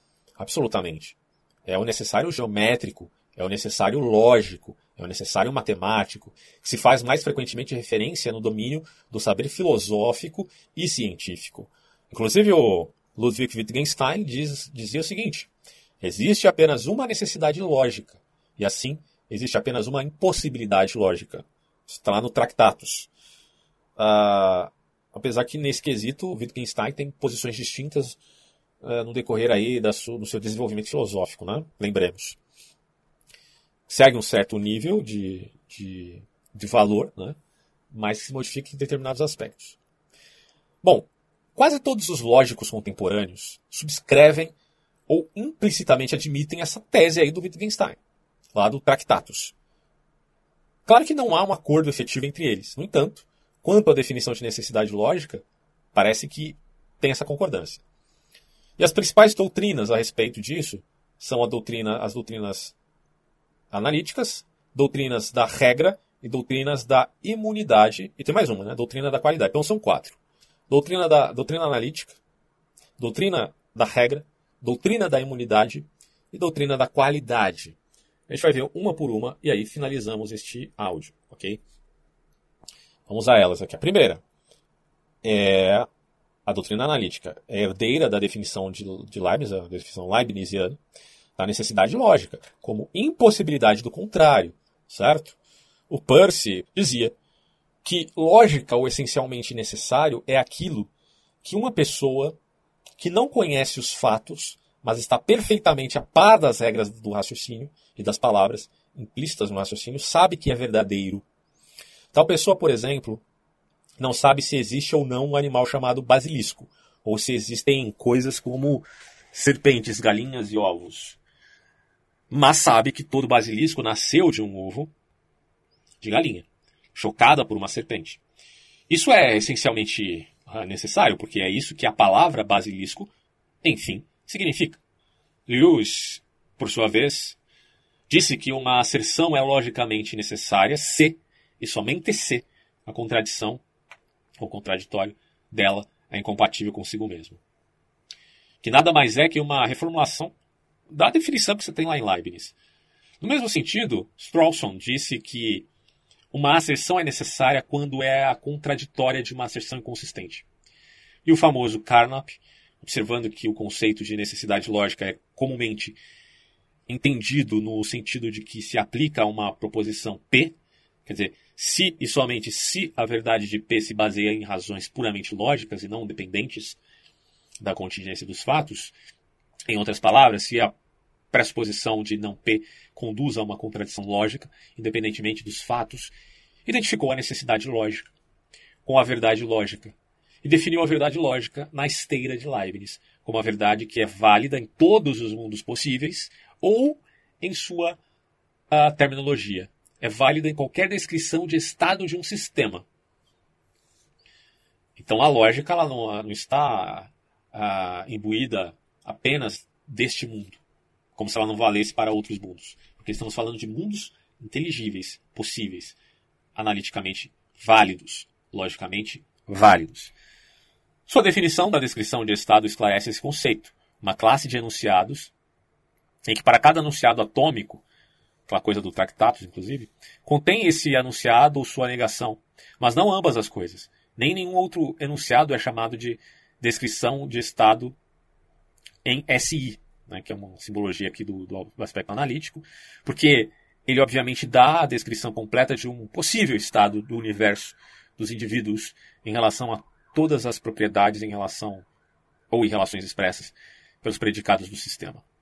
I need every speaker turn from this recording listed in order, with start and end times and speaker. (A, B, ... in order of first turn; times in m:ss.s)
0:00.4-0:15.5 A
0:16.0-0:23.1 A
0:24.0-0:28.2 A
0:28.8-0:32.4 A
0:33.9-0:37.4 A
0:37.9-0:39.8 A
0:40.8-0:44.5 A
0:45.1-0:48.0 A
0:48.6-0:49.6 A
0:50.9-0:57.8 A
0:58.8-1:02.8 A
1:03.7-1:10.2 A
1:10.7-1:12.2 A
1:13.0-1:17.8 A
1:18.3-1:21.6 A
1:23.1-1:24.2 A
1:25.2-1:25.9 A
1:26.5-1:30.8 A
1:31.4-1:37.2 A
1:37.8-1:40.9 A
1:41.4-1:42.4 A
1:43.0-1:51.2 A
1:52.1-1:53.2 A
1:54.0-2:01.2 A
2:02.3-2:04.9 A
2:06.0-2:08.2 A
2:08.9-2:13.1 A
2:13.6-2:14.8 A
2:15.5-2:17.4 A
2:18.1-2:23.6 A
2:24.4-2:27.4 A
2:28.6-2:30.3 A
2:30.9-2:32.5 A
2:33.2-2:35.7 A
2:36.3-2:40.4 A
2:41.2-2:46.0 A
2:46.9-2:56.8 A
2:57.6-2:58.9 A
2:59.7-3:00.7 A
3:01.3-3:06.1 A
3:06.7-3:08.1 A
3:08.8-3:18.0 A
3:18.7-3:22.9 A
3:25.0-3:30.6 A
3:31.2-3:36.0 A
3:36.6-3:40.1 A
3:41.1-3:45.3 A
3:46.3-3:47.8 A
3:48.5-3:58.0 A
3:59.0-4:11.9 A
4:12.5-4:15.2 A